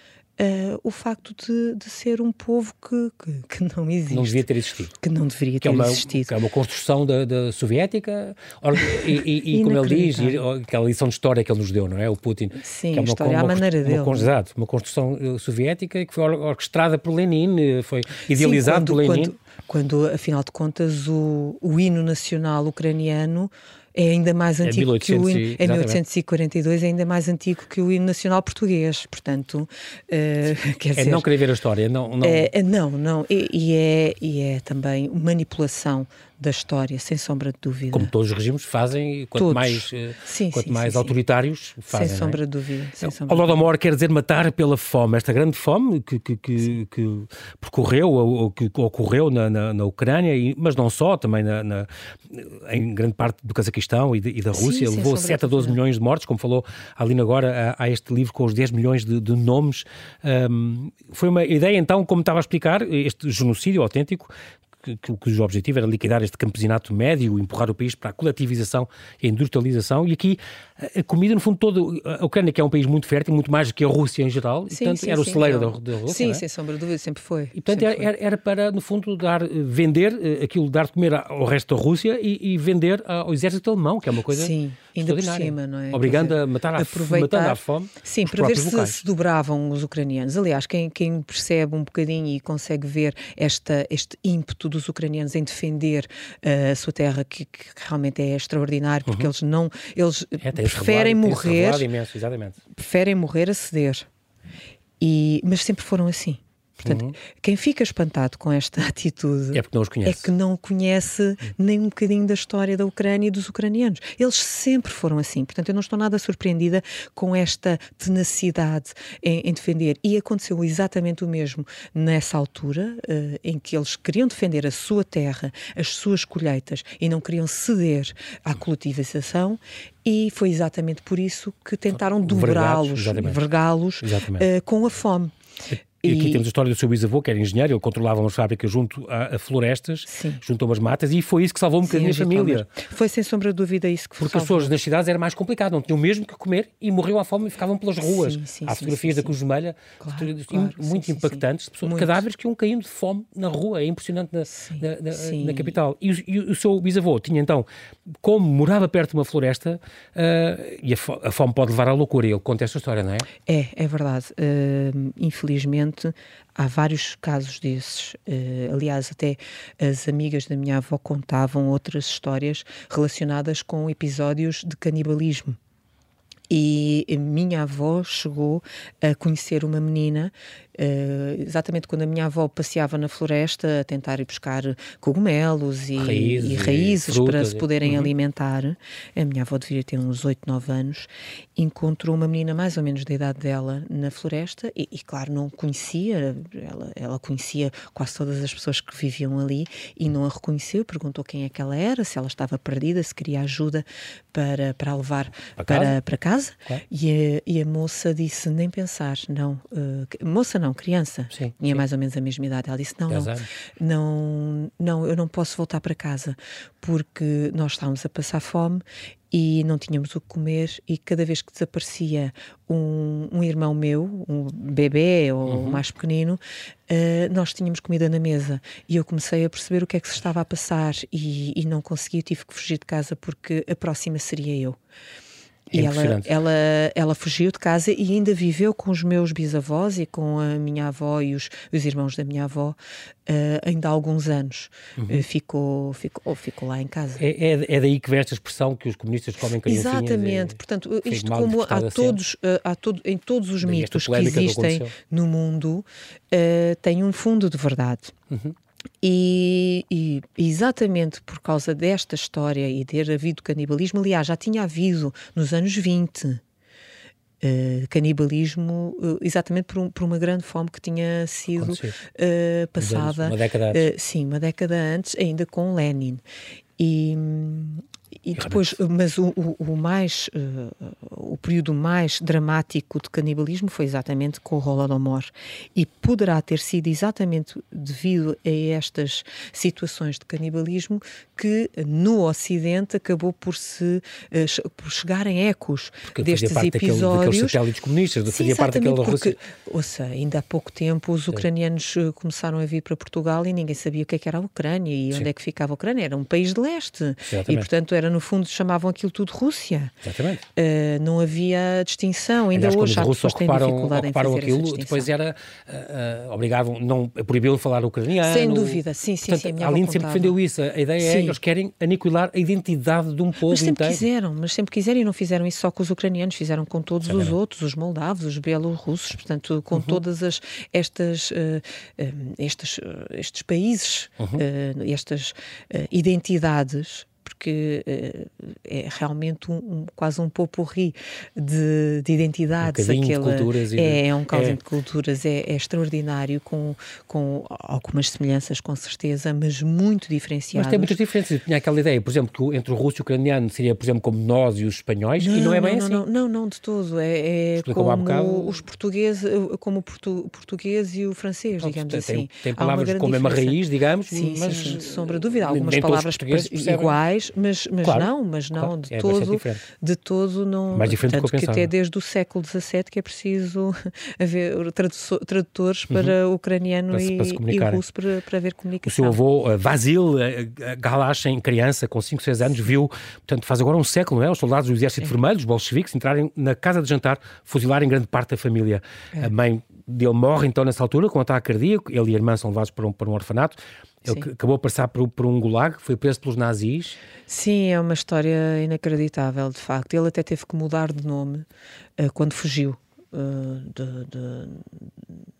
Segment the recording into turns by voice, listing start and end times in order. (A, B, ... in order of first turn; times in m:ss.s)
0:00.4-0:04.5 A
0:04.1-0:05.0 B
0:05.0-0:06.3 A
0:05.6-0:19.4 B
0:09.1-0:10.4 A
0:12.6-0:14.3 A
0:18.4-0:31.3 A
0:24.6-0:26.0 B
0:31.0-0:32.5 B
0:32.2-0:38.1 A
0:37.9-0:42.4 B
0:39.4-0:41.2 A
0:41.9-0:43.7 A
0:43.0-1:04.3 B
0:54.5-0:55.8 A
1:04.8-1:16.4 B
1:14.7-1:18.1 A
1:17.6-1:29.0 B
1:24.3-1:41.9 A
1:40.4-1:42.6 B
1:42.7-1:44.1 A
1:45.0-2:15.3 A
1:46.8-1:47.2 B
1:49.5-1:50.3 B
2:12.2-2:13.4 B
2:14.0-2:14.5 B
2:15.7-2:22.7 B
2:16.0-2:16.4 A
2:20.1-2:20.4 A
2:21.8-2:24.7 A
2:24.2-2:37.7 B
2:28.0-2:29.4 A
2:30.0-2:32.2 A
2:34.5-2:35.8 A
2:38.2-2:43.3 B
2:43.5-2:55.6 A
2:56.5-3:54.8 A
3:06.0-3:08.1 B
3:25.6-3:26.0 B
3:31.3-3:31.8 B
3:33.1-3:33.5 B
3:45.5-3:45.8 B
3:55.7-4:02.8 A
3:55.7-3:56.3 B
4:03.3-4:07.2 A
4:05.0-4:05.3 B
4:07.2-4:12.2 B
4:09.6-4:18.2 A
4:13.6-4:14.9 B
4:18.3-4:18.6 B
4:19.0-4:26.4 A
4:27.4-4:36.2 A
4:31.6-4:32.0 B
4:32.8-4:33.9 B
4:36.8-4:57.6 A
4:38.4-4:38.8 B
4:56.1-4:59.4 B
4:58.3-5:09.9 A
5:07.2-5:07.7 B
5:10.0-5:10.4 B
5:10.6-5:15.1 A
5:12.5-5:24.0 B
5:18.2-5:20.4 A
5:21.0-5:21.4 A
5:23.4-5:51.0 A
5:27.1-5:27.3 B
5:29.7-5:30.0 B
5:42.6-5:44.6 B
5:50.6-5:56.0 B
5:55.2-6:19.2 A
5:57.6-5:58.6 B
6:01.6-6:07.0 B
6:07.8-6:09.6 B
6:10.7-6:11.7 B
6:15.9-6:16.2 B
6:16.9-6:17.8 B
6:18.8-6:37.0 B
6:37.3-6:41.5 A
6:42.0-6:44.9 A